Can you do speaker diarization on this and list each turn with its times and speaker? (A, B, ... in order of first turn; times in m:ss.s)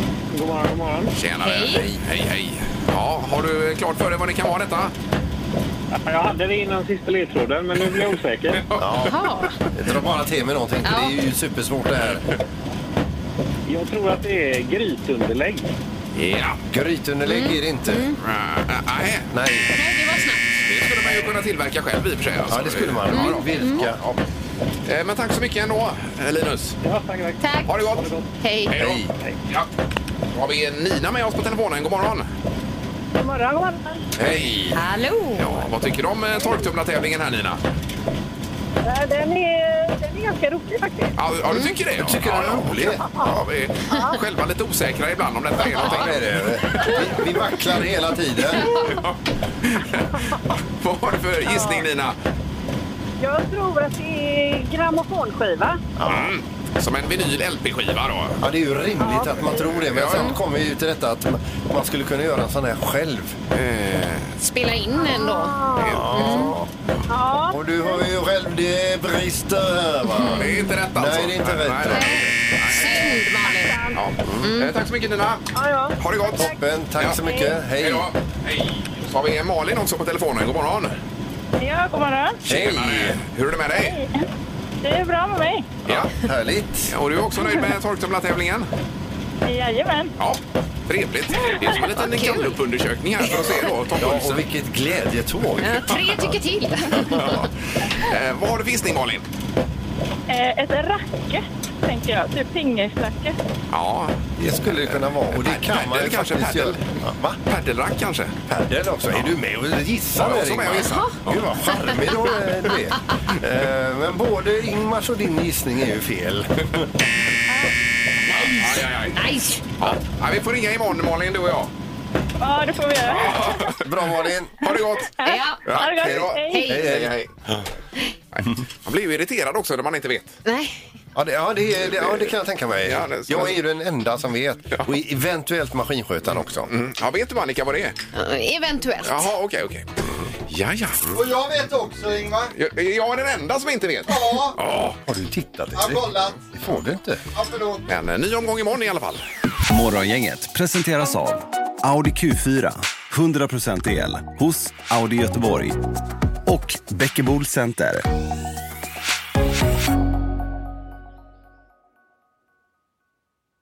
0:00.3-0:01.1 A
0:01.1-0:04.9 B
0:01.4-0:01.8 C
0:06.0-0:08.7 A
0:08.6-0:08.9 B
0:08.8-0:09.2 D
0:09.0-0:09.5 C
0:09.7-0:12.2 D
0:10.8-0:11.1 C
0:13.6-0:15.7 A
0:16.1-0:16.6 B
0:16.7-0:18.1 D
0:17.2-0:18.2 C
0:18.2-0:19.3 B
0:19.3-0:19.7 D
0:19.7-0:20.6 C
0:20.6-0:24.2 B
0:22.5-0:24.0 D
0:23.1-0:23.8 C
0:24.8-0:26.8 B
0:26.8-0:28.3 A
0:27.4-0:27.8 C
0:27.7-0:28.1 B
0:28.4-0:28.7 C
0:28.7-0:29.7 B
0:28.8-0:29.1 D
0:29.0-0:29.4 A
0:30.3-0:32.3 B
0:33.2-0:34.0 E
0:34.2-0:34.8 B
0:34.2-0:34.7 D
0:34.7-0:35.7 C
0:35.4-0:37.6 B
0:38.8-0:41.2 E
0:41.2-0:47.1 B
0:41.5-0:41.8 C
0:42.0-0:43.0 D
0:43.9-0:44.2 E
0:45.6-0:48.8 D
0:48.6-0:52.2 B
0:51.4-0:51.9 E
0:53.2-0:55.8 E
0:56.0-0:56.3 D
0:56.0-0:58.4 B
0:58.4-1:03.4 D
0:59.0-0:59.8 E
0:59.8-1:00.4 B
1:03.5-1:04.4 B
1:04.4-1:06.6 C
1:05.0-1:06.1 E
1:05.8-1:06.5 B
1:05.8-1:06.6 D
1:07.1-1:08.0 E
1:07.5-1:12.2 D
1:10.1-1:10.5 C
1:10.3-1:13.2 B
1:11.9-1:13.8 C
1:12.8-1:14.0 E
1:13.9-1:15.4 B
1:14.4-1:14.7 C
1:15.5-1:17.6 E
1:16.0-1:17.2 B
1:16.4-1:18.1 D
1:17.8-1:20.9 B
1:21.6-1:22.4 E
1:22.4-1:23.2 D
1:22.5-1:24.0 B
1:23.7-1:24.3 E
1:24.8-1:25.7 E
1:25.8-1:26.1 B
1:25.8-1:26.9 D
1:26.9-1:28.7 B
1:29.4-1:30.1 E
1:30.2-1:34.4 B
1:31.4-1:31.8 E
1:32.0-1:32.5 C
1:34.0-1:36.4 D
1:35.6-1:37.2 C
1:36.9-1:37.5 D
1:37.9-1:39.2 B
1:40.3-1:43.4 E
1:43.7-1:48.4 B
1:44.4-1:47.4 D
1:48.5-1:56.9 D
1:50.2-1:51.9 B
1:58.2-1:59.6 C
1:58.3-1:59.2 B
1:59.8-2:01.7 B
2:02.4-2:03.8 E
2:03.0-2:03.8 B
2:03.7-2:04.7 D
2:04.6-2:05.1 B
2:04.6-2:06.7 E
2:05.2-2:05.6 C
2:05.6-2:07.4 B
2:05.8-2:07.6 D
2:06.4-2:06.9 C
2:08.3-2:10.4 B
2:10.4-2:10.8 C
2:11.1-2:16.7 D
2:11.8-2:13.6 B
2:16.3-2:18.0 B
2:18.1-2:19.3 C
2:19.0-2:19.9 B
2:20.0-2:20.3 D
2:20.5-2:21.2 B
2:21.1-2:22.5 F
2:22.5-2:25.0 B
2:24.1-2:24.6 F
2:25.0-2:27.2 D
2:25.7-2:26.4 F
2:27.3-2:27.8 F
2:27.9-2:29.2 B
2:29.7-2:35.8 G
2:36.4-2:38.0 G